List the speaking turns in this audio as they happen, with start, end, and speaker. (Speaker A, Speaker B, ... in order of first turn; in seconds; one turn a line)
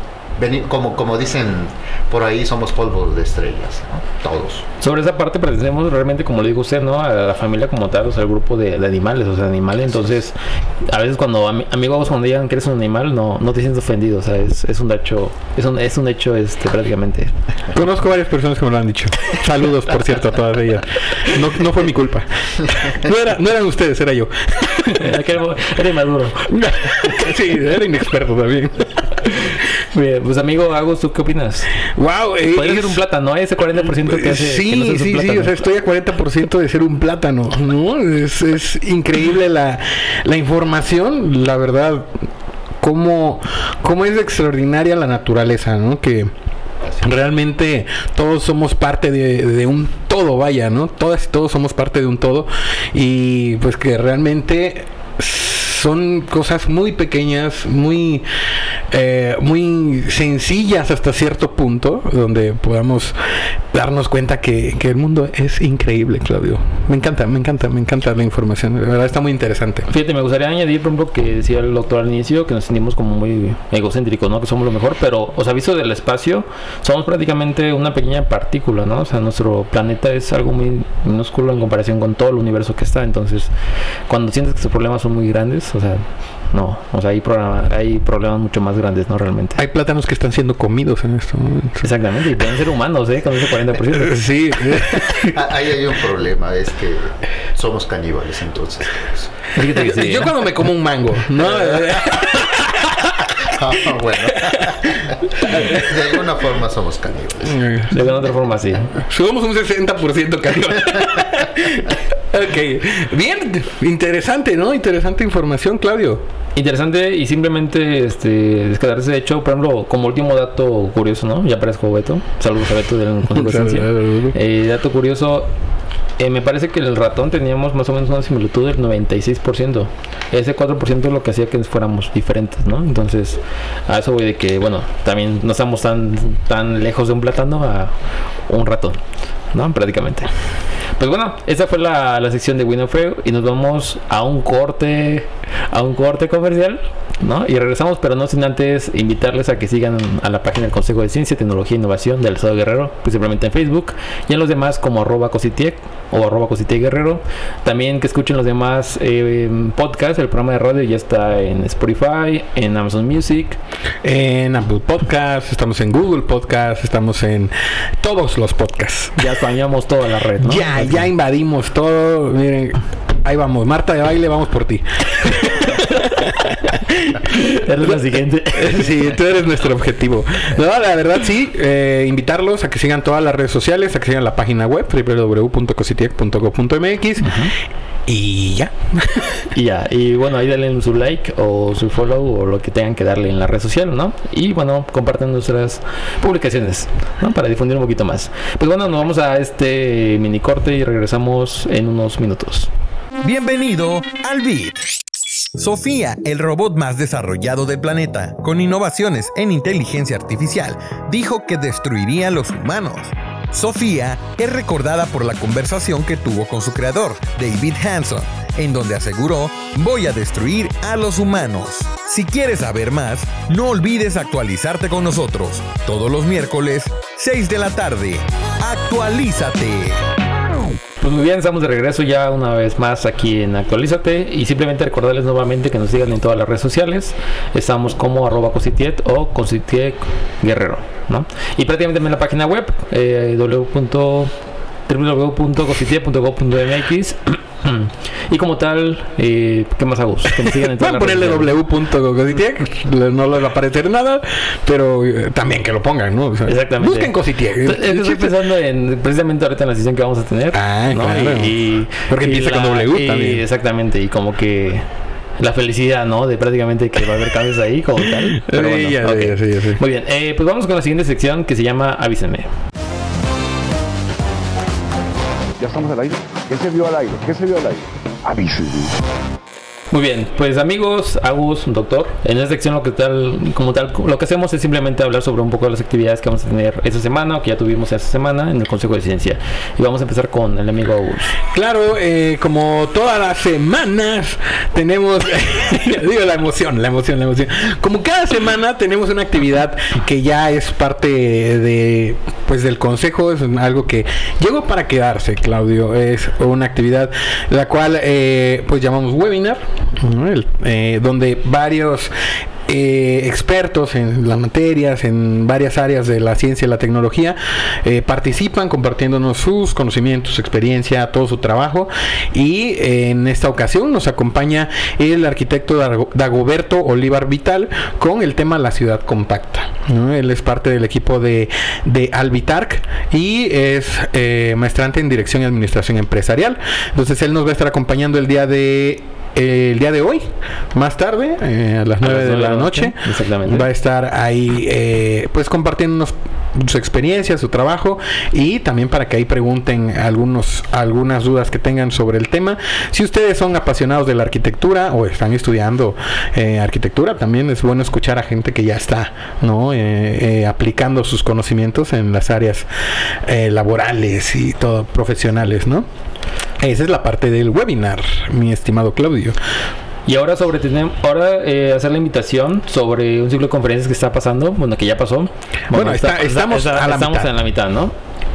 Speaker A: 0.4-4.7
Speaker B: 4.8-17.3
Speaker C: 17.7-25.2
Speaker B: 24.9-27.4
Speaker C: 27.0-28.9
Speaker B: 29.2-31.7
Speaker C: 31.9-33.0
Speaker B: 32.5-35.7
Speaker C: 34.0-42.2
Speaker C: 42.8-46.3
Speaker C: 47.0-58.3
Speaker C: 58.9-69.9
Speaker B: 69.9-83.5
Speaker B: 84.1-89.6
Speaker C: 89.6-91.8
Speaker B: 91.8-94.2
Speaker C: 93.9-95.4
Speaker A: 95.2-99.5
Speaker B: 99.5-100.3
Speaker C: 99.7-103.1
Speaker A: 101.6-102.1
Speaker A: 103.4-107.7
Speaker C: 104.3-106.0
Speaker C: 107.5-108.0
Speaker B: 107.9-109.0
Speaker C: 108.9-116.2
Speaker B: 116.5-125.5
Speaker C: 123.3-124.3
Speaker B: 126.2-137.9
Speaker B: 138.5-139.0
Speaker B: 139.5-140.3
Speaker B: 141.0-163.6
Speaker C: 164.0-169.3
Speaker B: 169.2-171.1
Speaker C: 170.4-177.2
Speaker B: 177.2-179.1
Speaker C: 178.5-187.5
Speaker B: 187.2-187.5
Speaker C: 188.1-189.4
Speaker B: 189.5-202.7
Speaker D: 203.2-204.8
Speaker D: 205.6-230.0
Speaker B: 231.0-244.3
Speaker B: 244.9-251.6
Speaker C: 250.4-258.3
Speaker B: 256.5-264.9
Speaker C: 260.5-263.4
Speaker B: 265.4-272.5
Speaker C: 268.2-269.8
Speaker E: 275.6-278.9
Speaker B: 279.9-291.4
Speaker C: 291.5-312.1
Speaker C: 312.7-362.7
Speaker B: 342.0-343.7
Speaker C: 363.2-365.9
Speaker C: 366.6-369.4
Speaker B: 370.1-377.9
Speaker C: 375.7-377.3